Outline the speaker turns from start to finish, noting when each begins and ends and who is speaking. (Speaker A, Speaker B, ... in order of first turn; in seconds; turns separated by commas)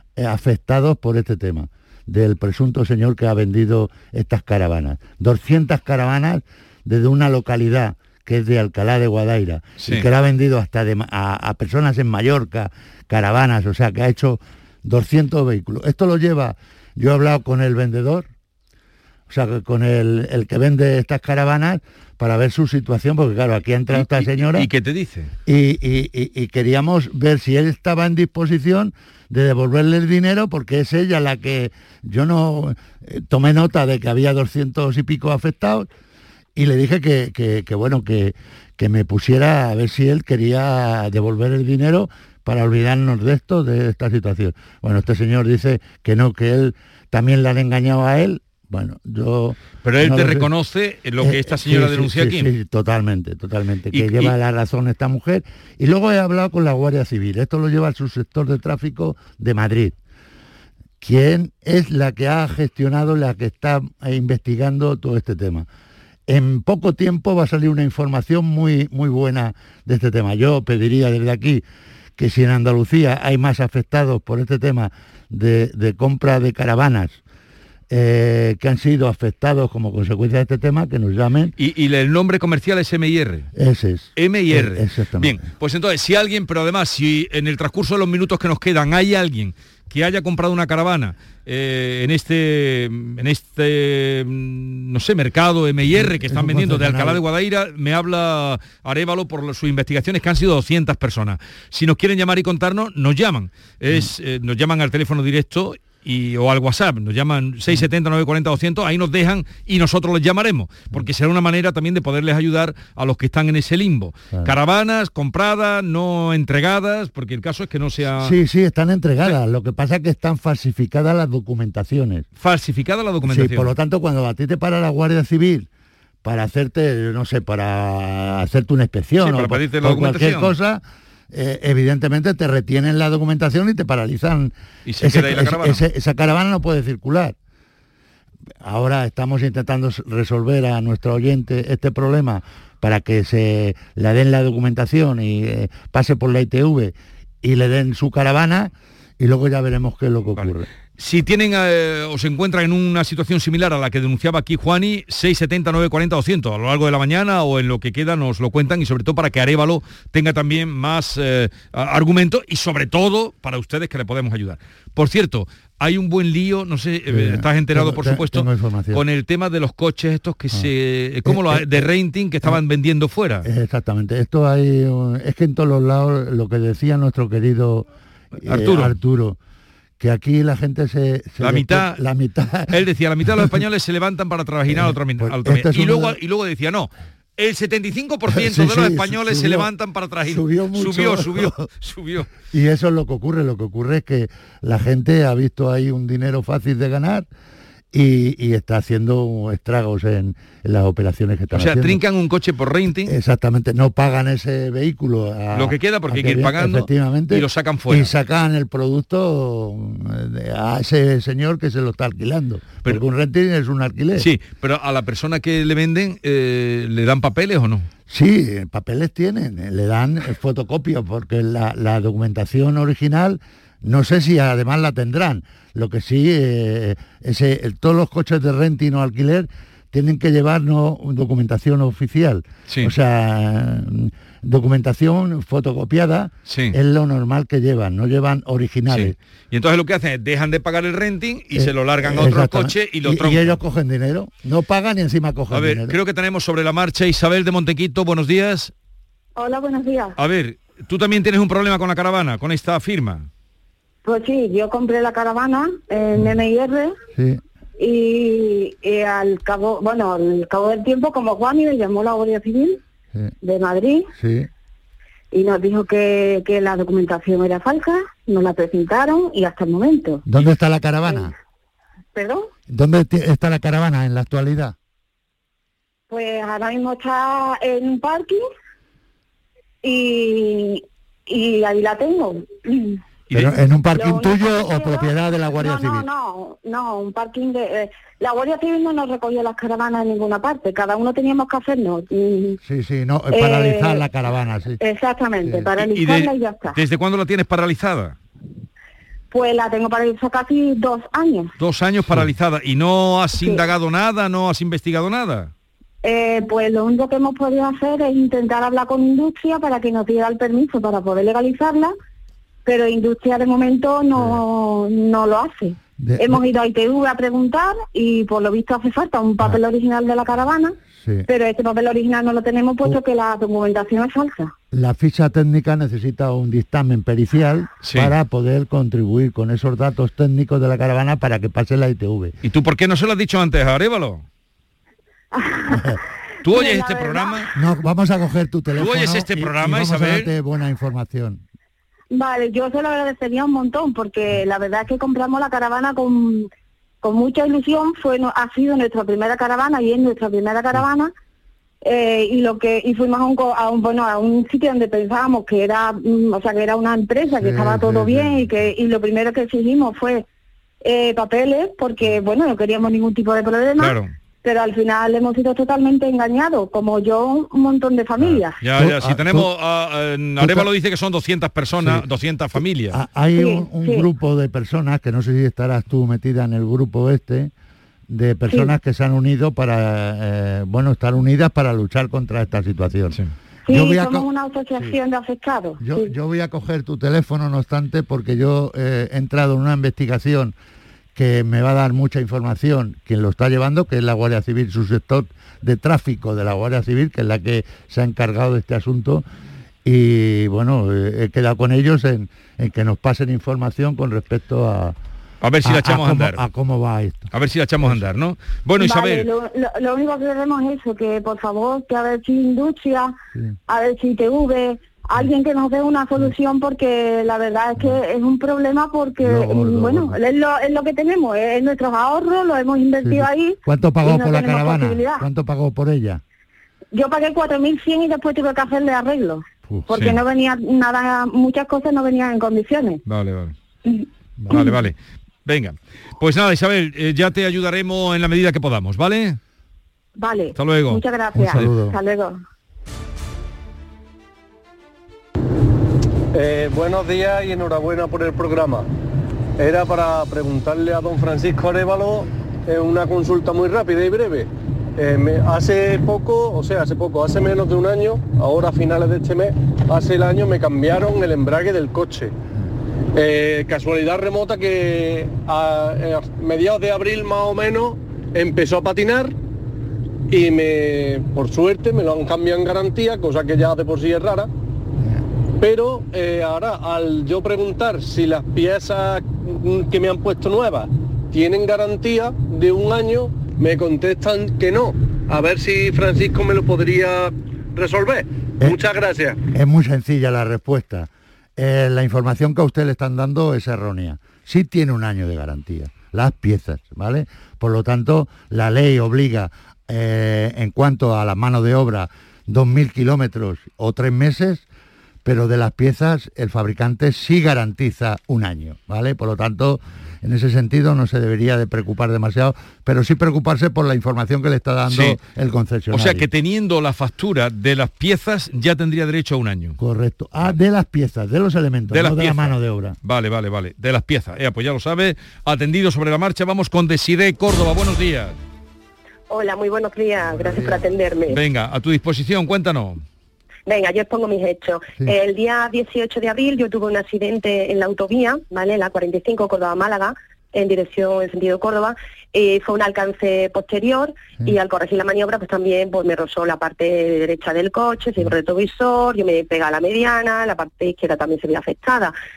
Speaker A: 0.2-18.3, Speaker B: 9.8-10.1, Speaker A: 19.3-24.7, Speaker B: 23.9-25.3, Speaker A: 25.4-35.9, Speaker A: 36.5-50.5, Speaker B: 49.8-52.5, Speaker A: 51.2-60.0, Speaker B: 53.9-54.3, Speaker A: 61.0-65.7, Speaker A: 66.3-71.6, Speaker A: 72.2-77.2, Speaker A: 77.9-81.5, Speaker B: 81.6-83.5, Speaker A: 83.6-85.4, Speaker B: 84.2-118.3, Speaker A: 95.9-97.2, Speaker A: 118.2-122.3, Speaker B: 122.4-123.7, Speaker A: 123.2-125.7, Speaker A: 126.2-137.3, Speaker B: 129.2-130.5, Speaker B: 134.8-135.8, Speaker A: 138.6-150.7, Speaker B: 150.3-173.4, Speaker A: 167.1-169.0, Speaker A: 171.2-171.9, Speaker A: 173.4-177.9, Speaker A: 178.4-179.4, Speaker B: 178.4-178.9, Speaker A: 180.0-182.7, Speaker B: 181.4-182.0, Speaker B: 182.7-192.3, Speaker A: 183.3-183.6, Speaker A: 184.7-186.1, Speaker A: 188.3-189.7, Speaker A: 190.2-191.6, Speaker A: 192.5-197.3, Speaker A: 197.9-202.0, Speaker B: 201.5-203.1, Speaker A: 202.9-214.2, Speaker B: 205.5-208.2, Speaker B: 214.2-217.9, Speaker A: 218.1-239.1, Speaker B: 236.5-236.7, Speaker B: 238.9-243.6, Speaker A: 241.5-245.9, Speaker B: 245.5-248.7, Speaker C: 249.4-250.1, Speaker B: 250.2-253.3, Speaker C: 254.0-256.9, Speaker A: 257.1-257.4, Speaker C: 257.8-262.8, Speaker C: 263.4-264.1, Speaker A: 264.2-264.5, Speaker C: 265.3-270.2, Speaker A: 270.3-271.3, Speaker C: 272.1-272.5, Speaker A: 272.7-274.7, Speaker C: 276.1-278.4, Speaker C: 279.8-282.9, Speaker A: 283.3-286.1, Speaker C: 283.9-292.6, Speaker A: 292.6-294.8, Speaker C: 293.3-294.1, Speaker C: 294.8-296.8, Speaker A: 295.4-295.7, Speaker B: 295.8-298.1, Speaker C: 299.3-301.5, Speaker B: 301.6-305.5, Speaker C: 306.0-311.9, Speaker C: 312.6-320.7, Speaker A: 316.0-316.4, Speaker A: 320.9-321.2, Speaker C: 321.3-324.5, Speaker A: 324.7-332.3, Speaker B: 327.8-328.1, Speaker B: 332.4-334.2, Speaker C: 335.3-335.9, Speaker B: 336.4-337.5, Speaker C: 336.5-337.4, Speaker A: 337.5-341.4, Speaker B: 338.8-340.3, Speaker C: 342.1-346.5, Speaker C: 347.0-351.1, Speaker C: 351.8-360.2, Speaker A: 357.3-358.7, Speaker C: 360.8-368.6, Speaker B: 363.8-364.1, Speaker A: 368.2-369.5, Speaker B: 368.6-373.0, Speaker A: 370.4-370.7, Speaker A: 371.8-372.0, Speaker A: 372.9-377.5, Speaker C: 373.3-374.1, Speaker A: 378.1-385.0, Speaker C: 383.7-386.1, Speaker A: 385.8-390.5, Speaker A: 391.1-399.2, Speaker A: 399.8-404.9, Speaker B: 405.4-406.5, Speaker A: 405.6-407.3, Speaker B: 407.3-409.2, Speaker C: 408.8-413.1, Speaker C: 413.7-425.2, Speaker A: 419.2-420.1, Speaker A: 423.0-426.2, Speaker C: 426.9-433.0, Speaker A: 429.6-429.9, Speaker B: 429.9-430.2, Speaker B: 433.1-433.5, Speaker A: 434.4-434.8, Speaker B: 434.5-434.9, Speaker B: 435.4-439.4, Speaker C: 440.2-442.4, Speaker B: 440.5-441.0, Speaker A: 441.3-442.0, Speaker D: 446.3-448.9, Speaker D: 449.6-462.3, Speaker D: 463.1-469.3, Speaker D: 470.3-474.5, Speaker D: 475.6-489.4, Speaker A: 489.5-504.6, Speaker A: 505.2-516.2, Speaker B: 514.9-515.2, Speaker B: 515.9-519.8, Speaker A: 519.8-523.0, Speaker B: 521.9-528.4, Speaker E: 529.3-531.4, Speaker A: 530.2-531.0, Speaker B: 531.3-533.0, Speaker E: 533.7-552.1